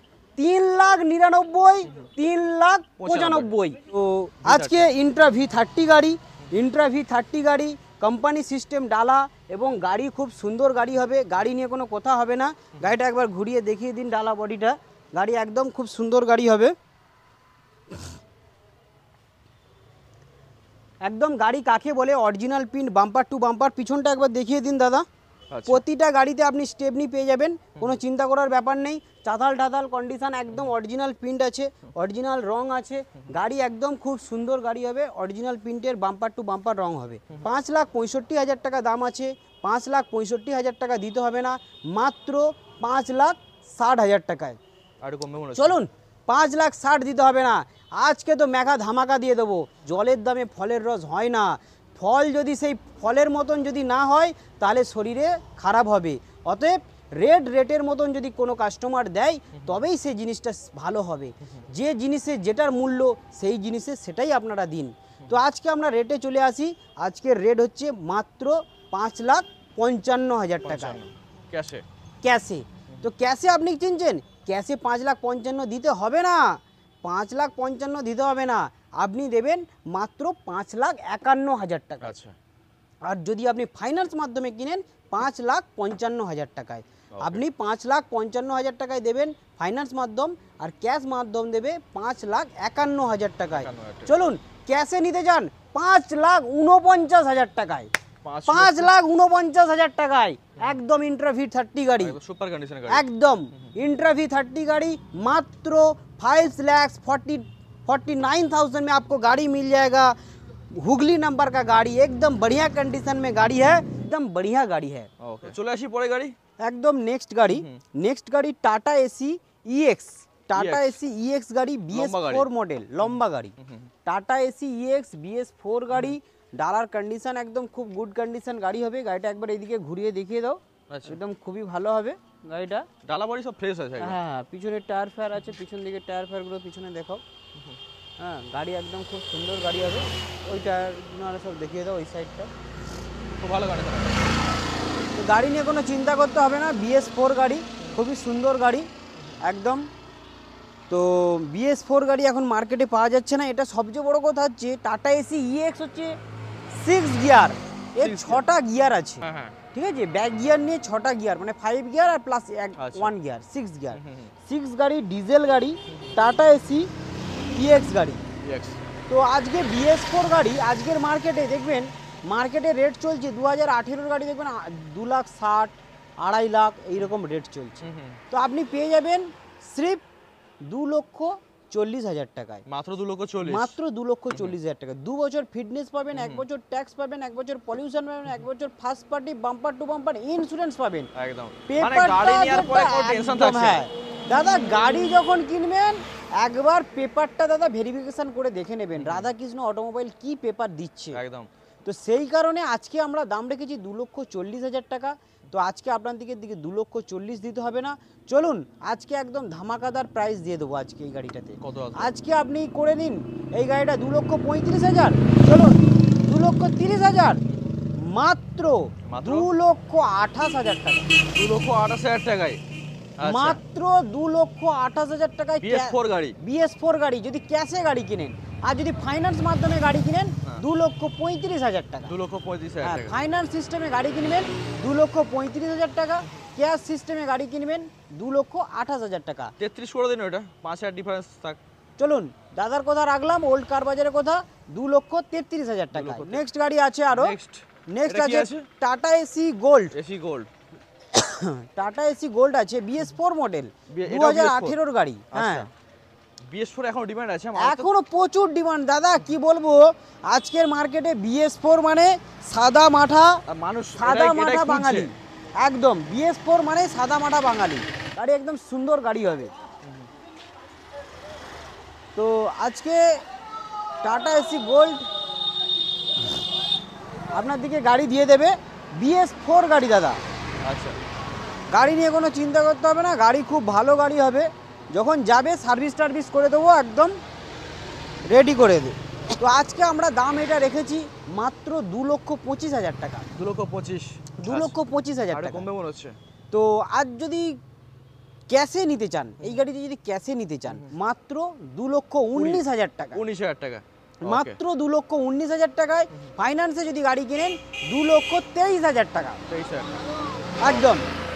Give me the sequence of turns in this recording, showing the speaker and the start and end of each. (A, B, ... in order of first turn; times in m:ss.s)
0:00.4-0:16.7 A
0:03.0-0:03.5 B
0:04.4-0:04.9 B
0:21.0-0:25.1 A
0:25.5-0:25.8 B
0:25.7-0:44.6 A
0:45.0-0:45.8 B
0:45.6-1:11.0 A
1:10.6-1:11.8 B
1:12.2-1:22.2 A
1:22.0-1:22.4 B
1:23.1-1:37.9 A
1:27.1-1:27.4 B
1:33.5-1:34.1 B
1:38.2-1:38.9 B
1:38.5-1:42.2 A
1:42.0-1:43.0 B
1:42.9-1:50.2 A
1:50.7-1:55.1 A
1:55.2-1:56.4 B
1:56.6-2:03.5 A
1:57.5-1:57.8 B
2:00.6-2:01.0 B
2:01.9-2:02.5 B
2:03.6-2:03.9 B
2:04.0-2:12.9 A
2:10.9-2:11.2 B
2:13.0-2:14.2 B
2:14.0-2:17.2 A
2:18.2-2:22.5 A
2:23.4-2:24.3 B
2:25.2-2:28.9 A
2:29.4-2:29.9 A
2:30.9-2:36.2 A
2:36.7-2:46.9 A
2:38.0-2:38.4 B
2:39.2-2:39.6 B
2:42.8-2:43.1 B
2:43.9-2:44.3 B
2:47.5-2:48.2 A
2:48.4-2:48.8 B
2:49.1-3:00.0 A
2:57.8-2:58.2 B
3:00.6-3:02.6 A
3:02.7-3:03.8 B
3:03.4-3:11.1 A
3:06.1-3:06.4 B
3:11.1-3:13.8 B
3:11.7-3:21.2 A
3:19.0-3:19.3 B
3:21.1-3:21.5 B
3:21.8-3:37.4 A
3:31.6-3:32.1 B
3:38.0-3:41.1 A
3:39.0-3:39.5 B
3:41.3-3:42.6 B
3:43.2-3:43.6 B
3:43.2-3:52.1 A
3:45.6-3:46.4 B
3:52.1-3:53.2 B
3:52.8-3:59.5 A
3:59.6-4:01.6 B
4:02.0-4:07.4 A
4:05.9-4:06.4 B
4:07.1-4:08.7 B
4:07.9-4:09.9 A
4:09.9-4:10.5 B
4:11.1-4:15.7 A
4:13.9-4:14.8 B
4:15.3-4:15.7 B
4:16.5-4:17.9 B
4:17.6-4:23.4 A
4:23.5-4:25.1 B
4:24.0-4:29.5 A
4:32.2-4:33.2 A
4:34.0-4:35.1 A
4:37.3-4:40.2 A
4:40.6-4:41.0 B
4:41.7-4:47.2 A
4:48.3-4:53.3 A
4:53.3-4:54.8 B
4:54.4-4:55.7 A
4:55.3-4:56.2 B
4:56.5-4:57.6 A
4:58.5-5:03.2 A
5:00.7-5:00.9 B
5:02.4-5:04.6 B
5:04.2-5:09.4 A
5:09.5-5:10.0 B
5:10.6-5:11.1 A